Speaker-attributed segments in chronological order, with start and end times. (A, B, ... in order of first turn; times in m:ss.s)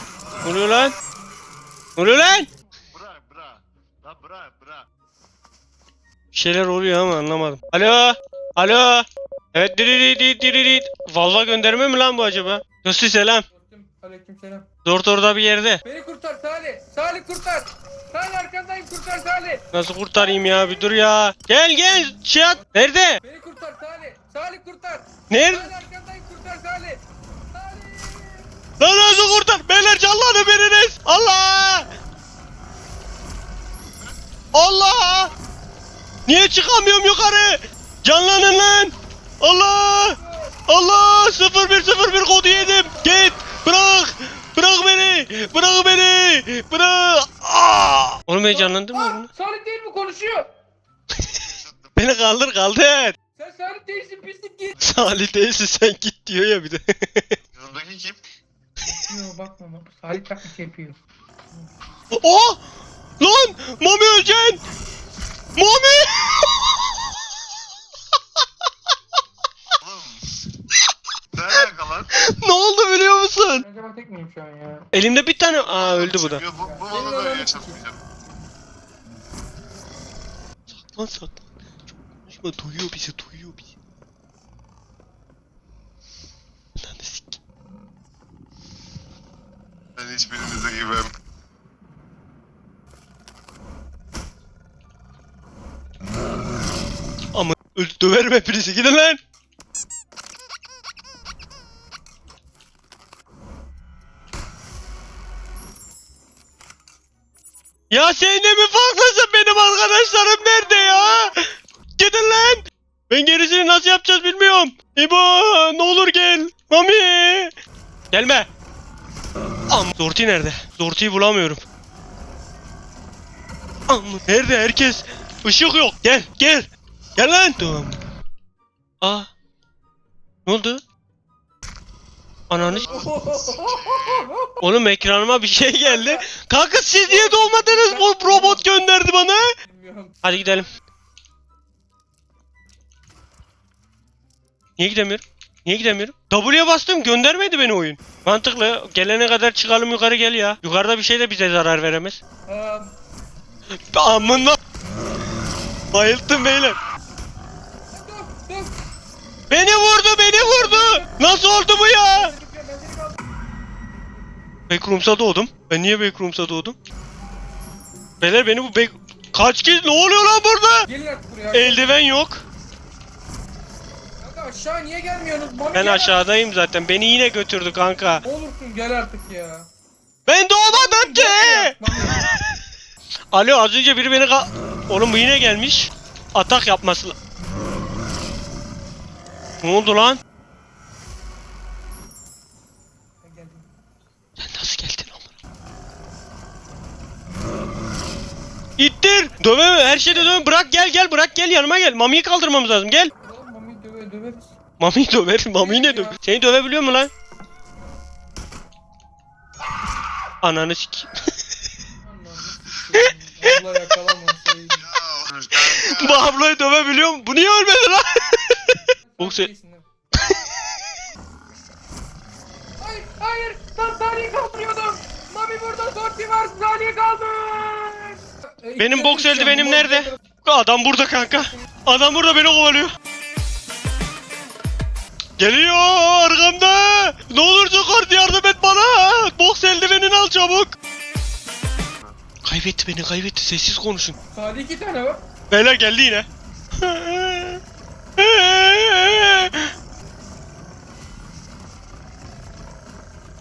0:00.2-0:00.6 A
0:00.4-0:00.9 B
0:02.0-0:02.5 B
0:02.9-0:04.9 A
0:06.3-0:13.4 B
0:13.5-0:14.6 C
0:14.8-0:15.8 B
0:15.8-0:19.6 C
0:19.7-0:23.2 B
0:20.2-0:20.8 C
0:22.4-0:22.6 C
0:23.2-0:28.5 C
0:25.3-0:25.7 B
0:28.8-0:31.8 B
0:34.5-0:35.3 B
0:36.3-0:49.3 B
0:40.2-0:40.5 C
0:48.5-0:50.5 C
0:51.3-0:52.0 A
0:52.0-0:53.1 B
0:53.4-0:54.8 C
0:54.8-0:57.4 B
0:57.5-0:58.2 A
0:58.8-1:01.0 C
1:02.1-1:02.6 B
1:03.2-1:04.6 B
1:05.6-1:06.9 B
1:09.8-1:10.2 A
1:11.3-1:12.1 A
1:12.1-1:13.6 B
1:13.6-1:14.9 C
1:14.9-1:16.4 B
1:15.7-1:18.0 A
1:16.5-1:17.8 C
1:20.7-1:21.4 B
1:22.2-1:23.6 B
1:26.8-1:27.4 B
1:30.0-1:31.1 A
1:37.3-1:39.2 B
1:47.9-1:51.4 B
1:52.0-1:57.5 B
1:58.1-1:58.5 B
1:59.7-2:01.6 B
2:03.9-2:08.0 B
2:09.0-2:09.3 B
2:10.4-2:10.8 B
2:12.5-2:12.9 B
2:12.5-2:14.6 C
2:12.9-2:14.3 A
2:14.6-2:19.5 B
2:15.8-2:16.2 C
2:17.0-2:18.7 C
2:19.6-2:20.2 C
2:20.2-2:20.7 B
2:24.8-2:32.2 B
2:32.5-2:32.9 C
2:33.8-2:34.6 B
2:35.9-2:36.8 B
2:37.9-2:38.7 C
2:39.5-2:42.3 B
2:40.3-2:43.2 C
2:44.7-2:46.8 B
2:48.2-2:50.9 B
2:50.8-2:51.9 C
2:51.5-2:52.4 B
2:54.2-2:56.2 C
2:55.7-2:58.2 B
2:58.2-2:59.7 C
3:00.3-3:02.3 B
3:00.7-3:02.2 C
3:03.3-3:07.2 B
3:09.6-3:10.2 B
3:13.2-3:13.7 C
3:14.4-3:15.3 B
3:18.8-3:23.1 B
3:19.9-3:20.3 C
3:23.2-3:24.5 C
3:24.8-3:27.1 B
3:25.5-3:26.2 C
3:30.4-3:31.1 B
3:32.0-3:34.8 C
3:33.0-3:33.6 B
3:34.8-3:36.4 A
3:35.5-3:39.5 B
3:39.1-3:39.8 C
3:40.2-3:40.8 B
3:42.8-3:50.1 C
3:48.8-3:52.9 B
3:55.4-4:00.7 B
4:02.4-4:04.2 B
4:04.3-4:05.2 C
4:05.5-4:06.2 B
4:06.8-4:07.6 B
4:08.2-4:09.7 B